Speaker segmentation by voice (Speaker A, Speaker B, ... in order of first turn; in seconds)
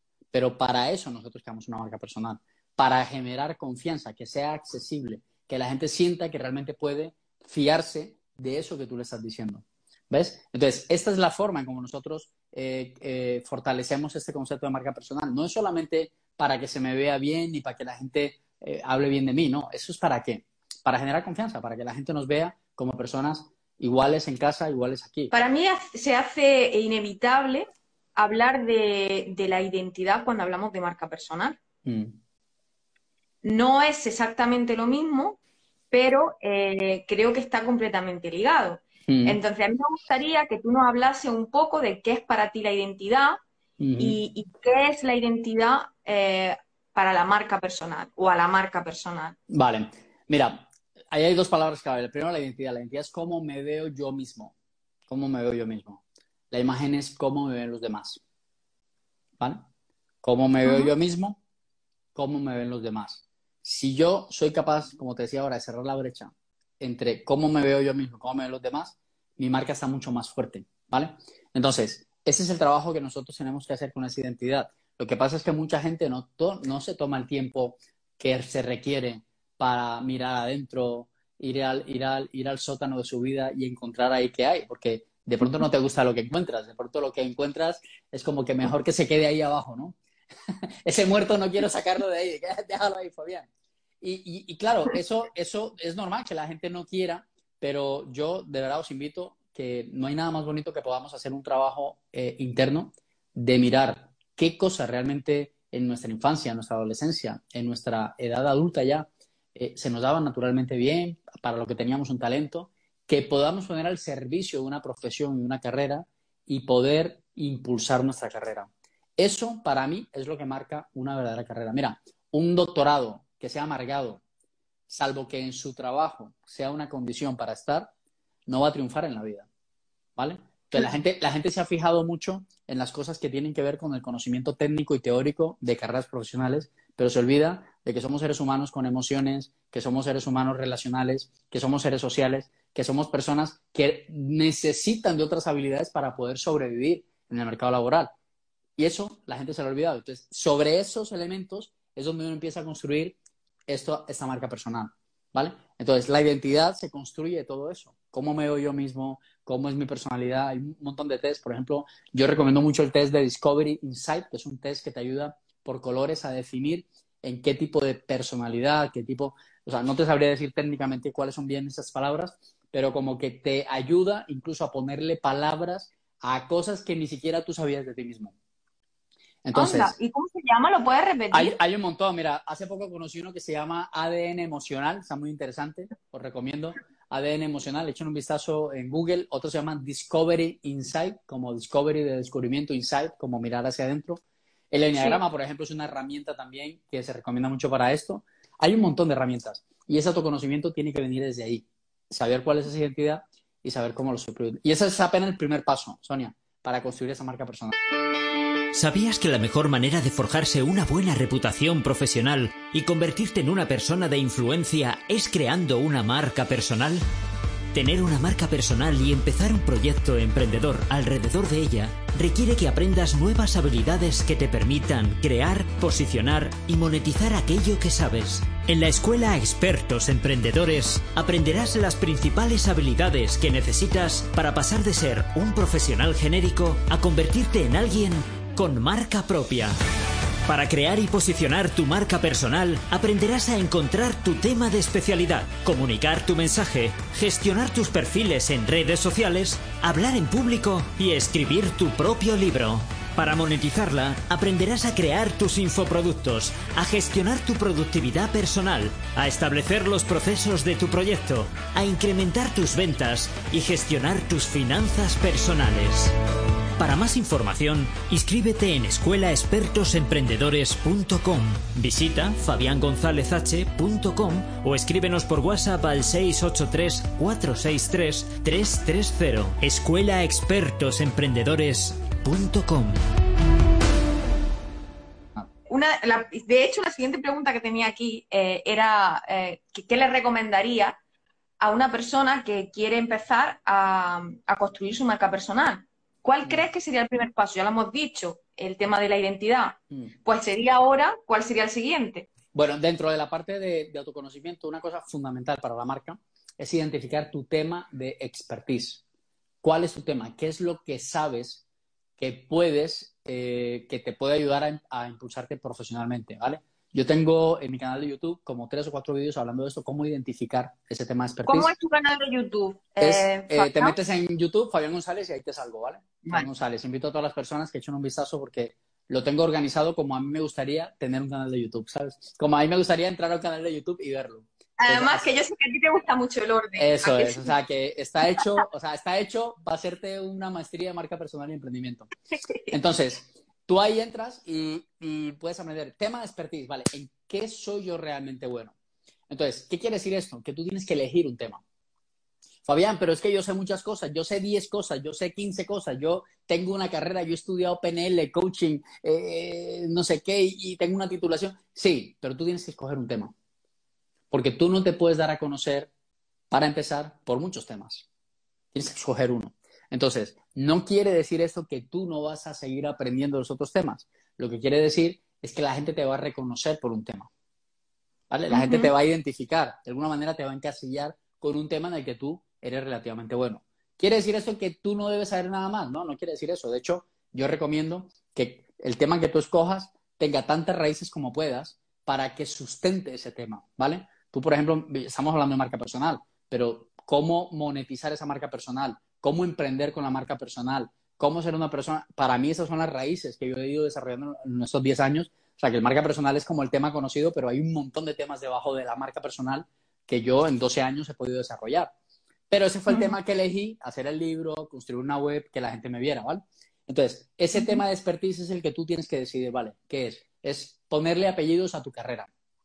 Speaker A: 0.3-25.3, 31.8-32.1, 39.1-39.4, 43.8-44.2, 49.5-54.5, 55.1-58.2, 59.4-59.6, 60.2-61.4, 62.1-90.0, 90.8-93.5, 94.0-124.2, 124.9-127.9, 128.5-129.5, 130.2-148.1, 148.8-153.2, 153.7-178.3, 179.4-179.9, 181.3-207.7, 302.5-309.0, 309.6-311.6, 312.2-321.7, 323.0-335.3, 336.8-342.1, 342.7-348.7, 349.3-351.6, 352.6-363.3, 364.3-365.9, 366.5-368.1, 368.7-377.3, 378.3-411.9, 412.5-422.3
Speaker B: 25.3-31.6, 33.4-35.4, 35.9-43.4, 44.0-49.4, 60.6-60.9, 179.5-181.6, 285.7-291.0, 291.6-302.3, 321.4-324.0, 334.8-337.5, 378.5-378.9, 412.9-413.1, 417.5-417.8
Speaker C: 208.7-217.0, 217.7-239.7, 240.4-266.1, 266.8-283.0